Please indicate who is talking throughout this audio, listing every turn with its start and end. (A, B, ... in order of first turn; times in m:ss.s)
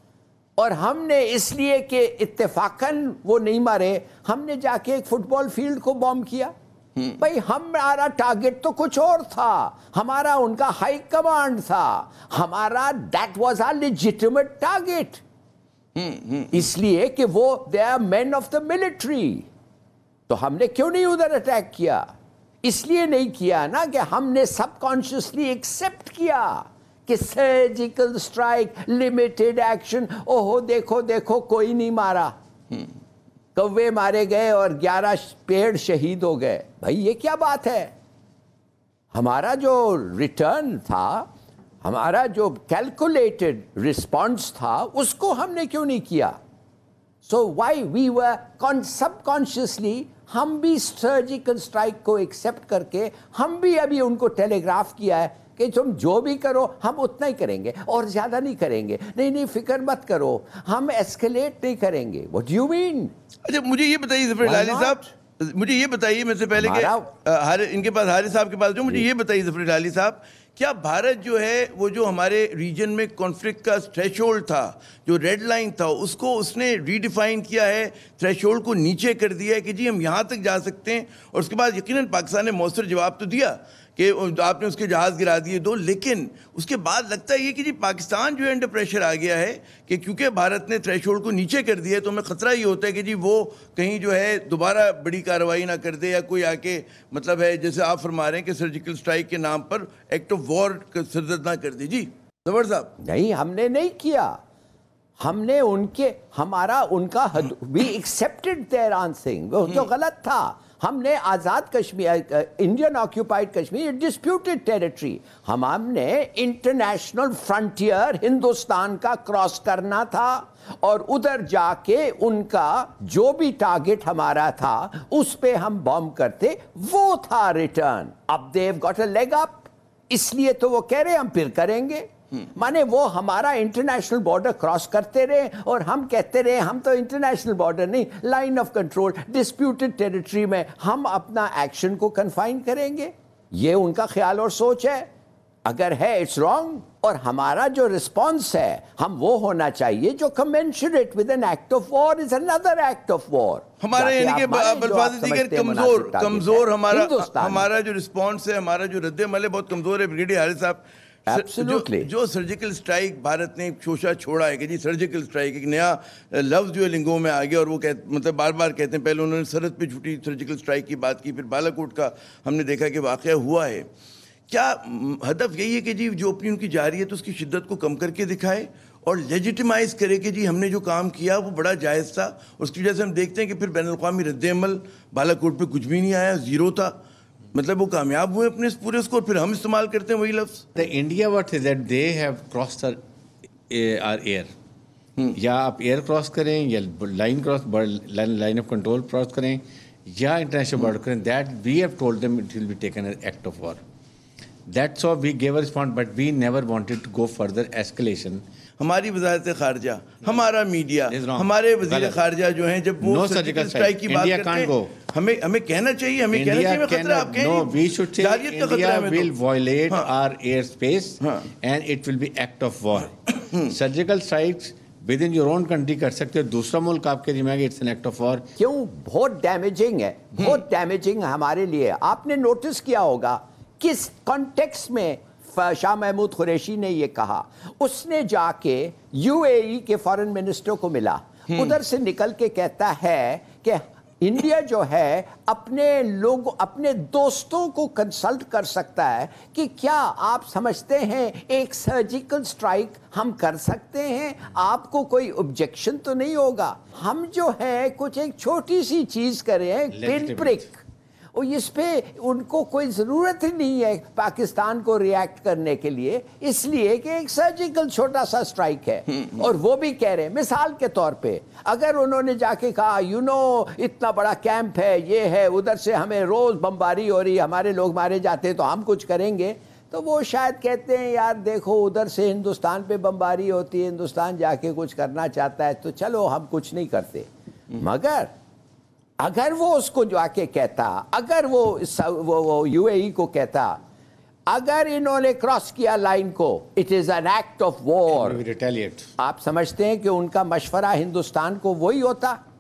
0:00.6-0:06.5 A
0:07.2-0:15.2 A
0:16.0-0:16.5 B
0:16.5-0:19.5 A
0:20.3-0:22.1 A
0:22.6-0:32.3 A
0:33.6-0:37.9 A
0:39.1-0:41.3 A
0:41.8-0:46.4 A
0:47.2-1:03.1 A
1:03.4-1:42.9 B
1:04.4-1:05.0 A
1:06.6-1:07.1 A
1:43.0-1:44.4 A
1:45.2-2:25.1 A
2:25.6-2:37.7 A
2:33.8-2:53.9 B
2:41.3-2:42.1 A
2:54.5-3:07.0 B
3:07.5-3:10.7 B
3:10.8-3:13.0 C
3:13.7-3:14.5 C
3:15.3-3:23.8 C
3:24.7-3:28.4 C
3:28.8-3:39.3 B
3:31.1-3:32.2 C
3:33.0-3:34.9 C
3:36.3-3:48.5 C
3:48.6-4:20.8 A
4:19.9-4:20.6 C
4:21.3-4:48.3 A
4:49.2-4:53.8 A
4:54.5-4:58.4 A
4:58.1-4:59.1 C
4:59.2-5:02.4 A